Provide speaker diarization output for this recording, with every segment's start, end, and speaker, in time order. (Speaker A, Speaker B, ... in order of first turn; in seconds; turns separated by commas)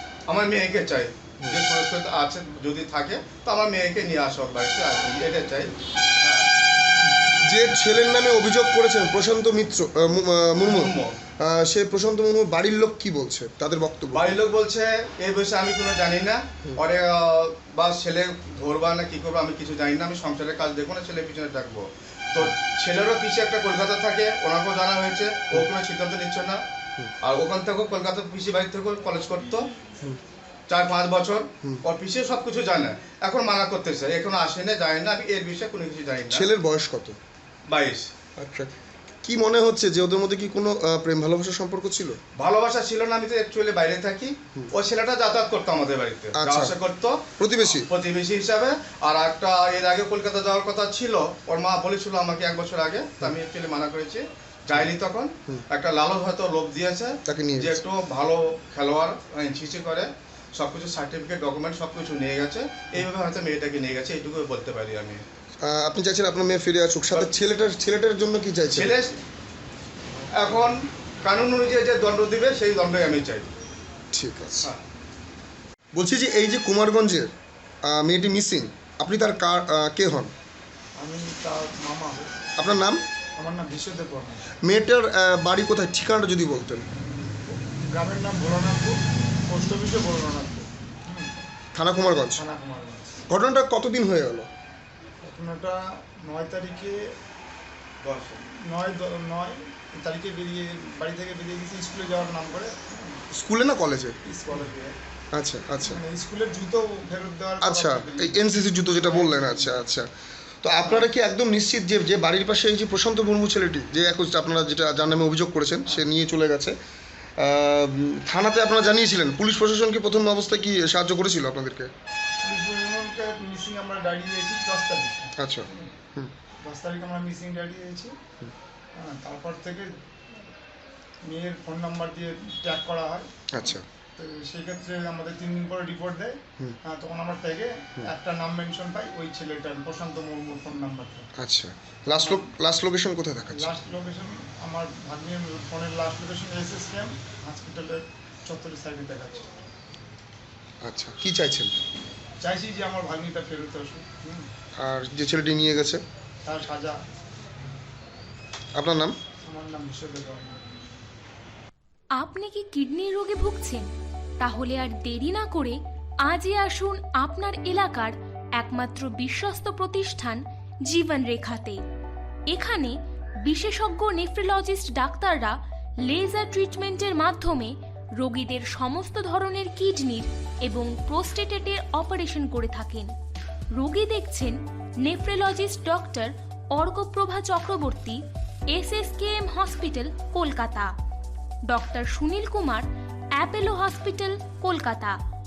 Speaker A: 0.3-6.5, Speaker B: 7.4-14.3, Speaker A: 10.6-11.2, Speaker A: 14.1-26.6, Speaker A: 27.2-29.7, Speaker A: 30.7-36.5, Speaker B: 36.3-37.2, Speaker A: 37.7-38.1, Speaker B: 38.4-38.7, Speaker B: 39.2-42.2, Speaker A: 42.4-65.2, Speaker B: 46.4-46.8, Speaker B: 47.4-47.9, Speaker B: 57.3-57.8, Speaker B: 65.6-69.0, Speaker A: 68.7-69.2, Speaker A: 70.4-73.5, Speaker B: 74.1-74.7, Speaker B: 75.9-77.3, Speaker B: 77.8-80.3, Speaker C: 81.0-82.3, Speaker B: 82.6-83.0, Speaker C: 83.4-84.5, Speaker B: 84.6-86.8, Speaker C: 87.0-91.3, Speaker B: 91.8-92.4, Speaker C: 92.0-93.2, Speaker B: 93.3-94.5, Speaker C: 95.2-97.0, Speaker A: 98.0-98.4, Speaker C: 98.7-103.2, Speaker B: 103.3-104.2, Speaker C: 104.2-105.0, Speaker B: 105.3-106.0, Speaker C: 105.8-108.5, Speaker B: 107.6-110.1, Speaker C: 109.0-109.8, Speaker B: 110.6-116.8, Speaker C: 110.8-111.1, Speaker B: 117.4-121.9, Speaker C: 122.4-125.9, Speaker B: 125.4-126.3, Speaker C: 126.6-128.2, Speaker C: 129.0-129.9, Speaker C: 131.2-133.3, Speaker B: 133.5-133.8, Speaker C: 134.2-141.3, Speaker B: 141.4-143.7, Speaker C: 143.5-149.5, Speaker B: 150.8-151.7, Speaker C: 152.4-154.5, Speaker B: 154.8-156.0, Speaker C: 156.4-157.0, Speaker B: 158.8-159.2, Speaker C: 159.4-160.6, Speaker D: 162.2-163.9, Speaker D: 164.4-171.8, Speaker D: 172.5-172.9, Speaker D: 173.4-183.1, Speaker D: 183.8-188.2, Speaker D: 188.7-190.9, Speaker D: 191.7-192.9, Speaker D: 193.4-195.2